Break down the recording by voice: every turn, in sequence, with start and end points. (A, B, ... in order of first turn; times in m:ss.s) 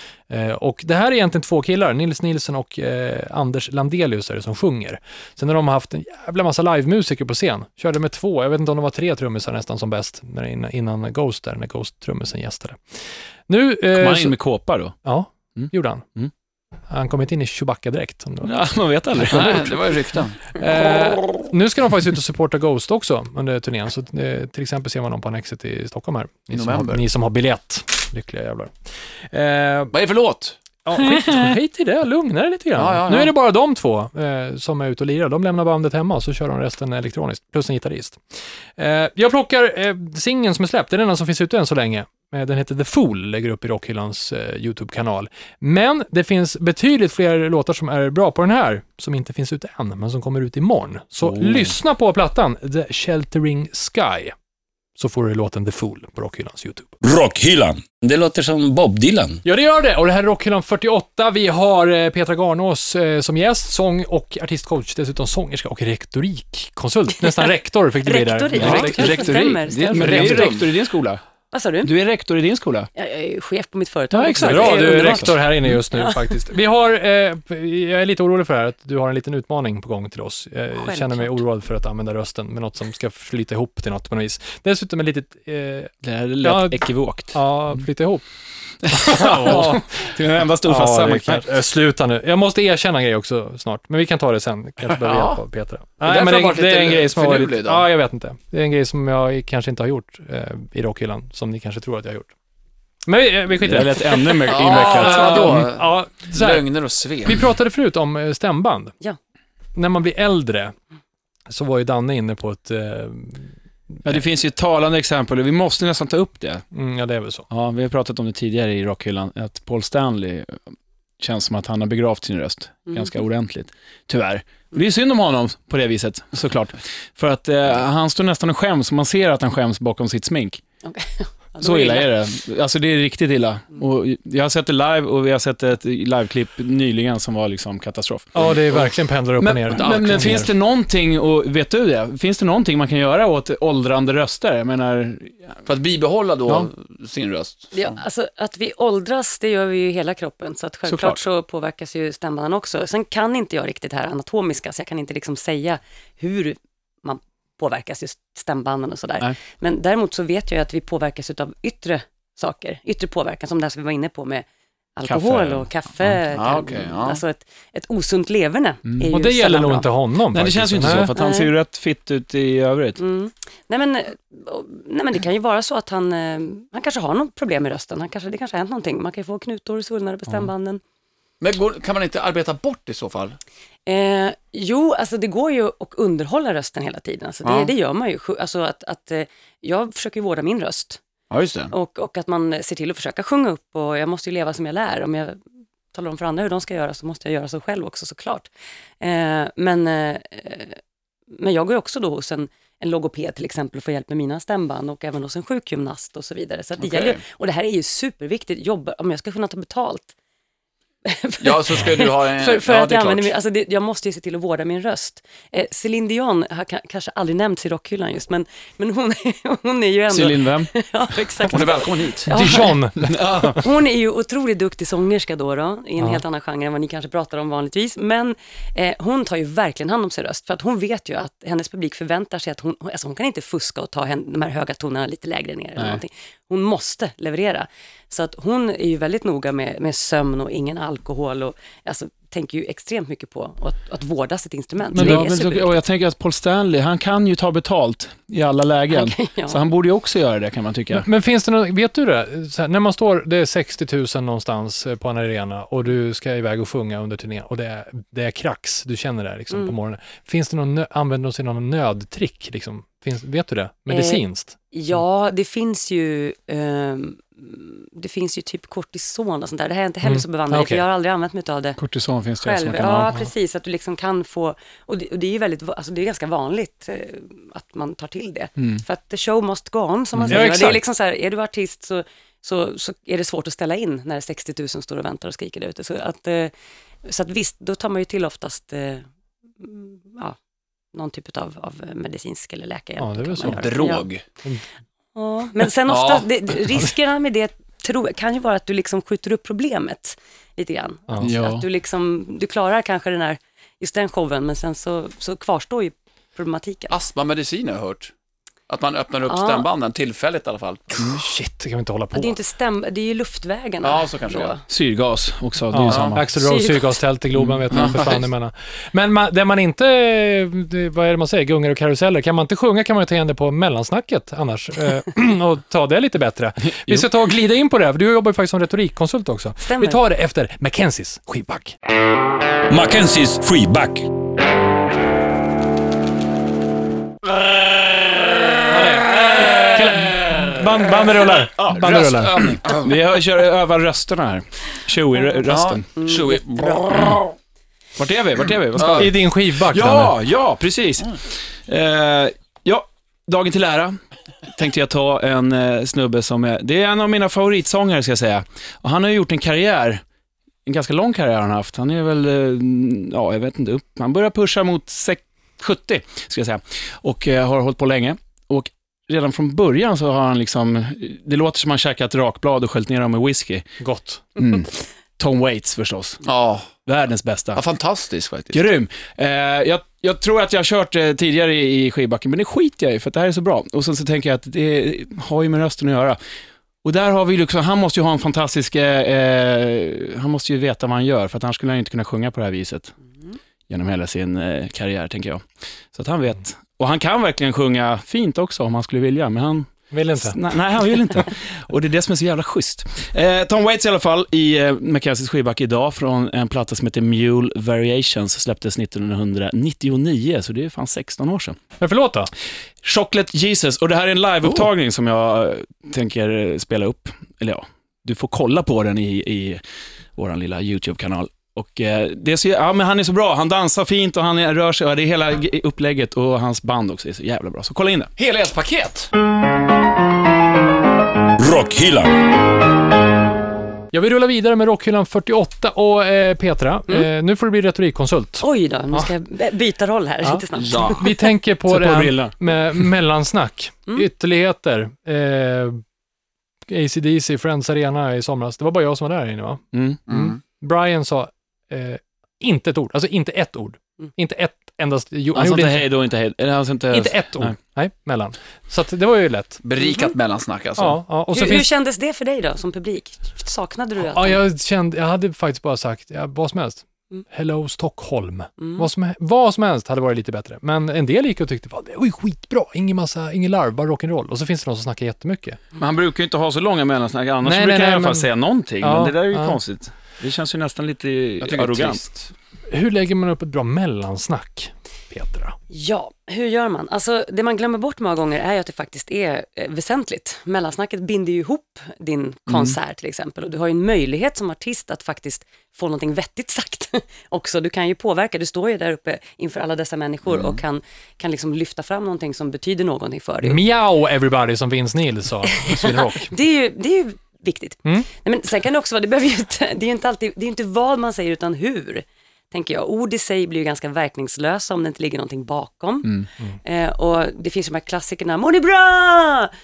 0:00.3-0:14.4 A
0:13.9-0:15.0 B
0:15.0-0:16.0 A
0:15.5-0:16.3 B
0:16.9-0:18.6 A
0:18.4-0:19.8 B
0:19.2-0:20.5 C
0:20.5-0:28.7 A
0:26.5-0:27.0 C
0:29.3-0:29.9 A
0:29.9-0:30.6 C
0:30.8-0:38.2 A
0:32.8-0:33.3 C
0:38.8-0:54.3 A
0:51.4-0:51.6 D
0:55.0-0:57.0 A
0:57.0-0:59.4 D
0:59.4-1:09.4 A
1:08.0-1:10.6 E
1:08.6-1:11.2 B
1:10.0-1:10.6 C
1:10.1-1:10.6 A
1:11.5-1:11.9 E
1:11.8-1:12.9 B
1:12.9-1:15.4 E
1:14.1-1:15.8 B
1:14.4-1:28.2 A
1:15.9-1:16.2 E
1:20.7-1:21.4 E
1:26.0-1:27.8 B
1:28.8-1:42.3 A
1:28.8-1:31.4 B
1:35.1-1:35.4 C
1:36.0-1:37.8 C
1:43.0-1:48.9 A
1:43.6-1:45.7 B
1:44.5-1:47.4 C
1:49.7-1:50.7 A
1:51.5-1:53.5 A
1:54.0-1:56.6 B
1:56.7-1:57.4 A
1:57.5-2:10.6 B
2:10.8-2:12.1 E
2:11.6-2:25.6 B
2:18.3-2:20.5 A
2:19.7-2:20.5 C
2:25.6-2:28.0 C
2:27.7-2:44.4 E
2:30.9-2:31.2 B
2:45.0-2:49.9 E
2:45.0-2:45.7 B
2:46.3-2:47.2 C
2:48.8-2:49.1 B
2:49.1-2:51.1 A
2:50.3-2:53.0 B
2:51.1-2:51.5 E
2:53.0-3:00.8 E
3:01.4-3:03.4 C
3:03.9-3:11.0 E
3:07.4-3:07.7 C
3:11.3-3:11.7 C
3:11.7-3:15.4 E
3:15.9-3:20.8 E
3:21.3-3:30.1 E
3:26.8-3:27.2 C
3:31.0-3:42.8 E
3:31.4-3:33.3 C
3:40.1-3:40.7 B
3:41.5-3:42.3 C
3:42.3-3:43.4 A
3:43.0-3:43.6 B
3:43.4-4:05.8 E
3:55.8-3:56.0 B
4:04.9-4:05.2 A
4:05.0-4:11.1 B
4:08.9-4:09.6 E
4:10.9-4:24.5 A
4:19.5-4:19.7 E
4:23.9-4:31.8 E
4:30.0-4:30.8 A
4:31.8-4:33.1 B
4:32.4-4:46.5 E
4:38.6-4:38.8 B
4:40.2-4:40.5 B
4:40.3-4:40.8 A
4:47.0-4:49.1 E
4:49.6-4:50.4 E
4:50.9-4:54.1 E
4:53.0-4:53.6 A
4:53.4-4:54.2 C
4:55.1-5:06.9 E
4:55.9-4:56.3 C
5:01.2-5:01.6 B
5:06.9-5:08.1 C
5:08.7-5:11.2 C
5:09.3-5:09.7 E
5:11.0-5:12.4 A
5:12.1-5:14.6 E
5:13.8-5:14.5 C
5:14.7-5:16.2 B
5:15.7-5:31.7 A
5:15.9-5:16.2 C
5:16.4-5:16.9 E
5:17.3-5:18.1 B
5:17.7-5:18.2 C
5:29.6-5:30.0 E
5:32.7-5:34.1 D
5:38.7-5:42.5 A
5:41.6-5:45.9 B
5:41.7-5:42.9 C
5:45.5-5:47.2 C
5:46.0-5:46.8 E
5:48.0-6:00.0 B
5:48.7-5:49.1 C
5:48.8-5:50.2 A
6:00.6-6:13.7 B
6:13.8-6:14.2 A
6:14.4-6:16.2 B
6:16.2-6:16.7 C
6:16.8-6:17.6 B
6:17.5-6:18.6 C
6:18.5-6:26.2 B
6:26.8-6:32.9 B
6:33.7-6:51.6 B
6:39.9-6:40.4 A
6:51.8-6:52.3 A
6:52.8-6:59.6 B
7:00.2-7:08.1 B
7:08.2-7:09.1 C
7:11.4-7:12.1 D
7:13.9-7:19.1 A
7:18.4-7:21.1 E
7:20.2-7:25.8 A
7:20.6-7:21.1 B
7:21.7-7:22.8 B
7:26.7-7:35.9 A
7:29.7-7:30.0 B
7:30.1-7:30.4 C
7:35.3-7:37.5 B
7:36.9-7:39.6 A
7:39.6-7:41.0 C
7:39.8-7:40.1 E
7:40.8-7:41.7 A
7:41.3-7:44.4 E
7:44.0-7:55.6 A
7:48.6-7:48.9 E
7:55.8-8:02.0 B
7:57.4-7:58.3 A
7:58.8-7:59.6 A
8:01.4-8:02.3 C
8:02.7-8:05.6 A
8:05.7-8:23.6 E
8:20.3-8:20.6 C
8:23.4-8:26.3 A
8:25.5-8:39.5 E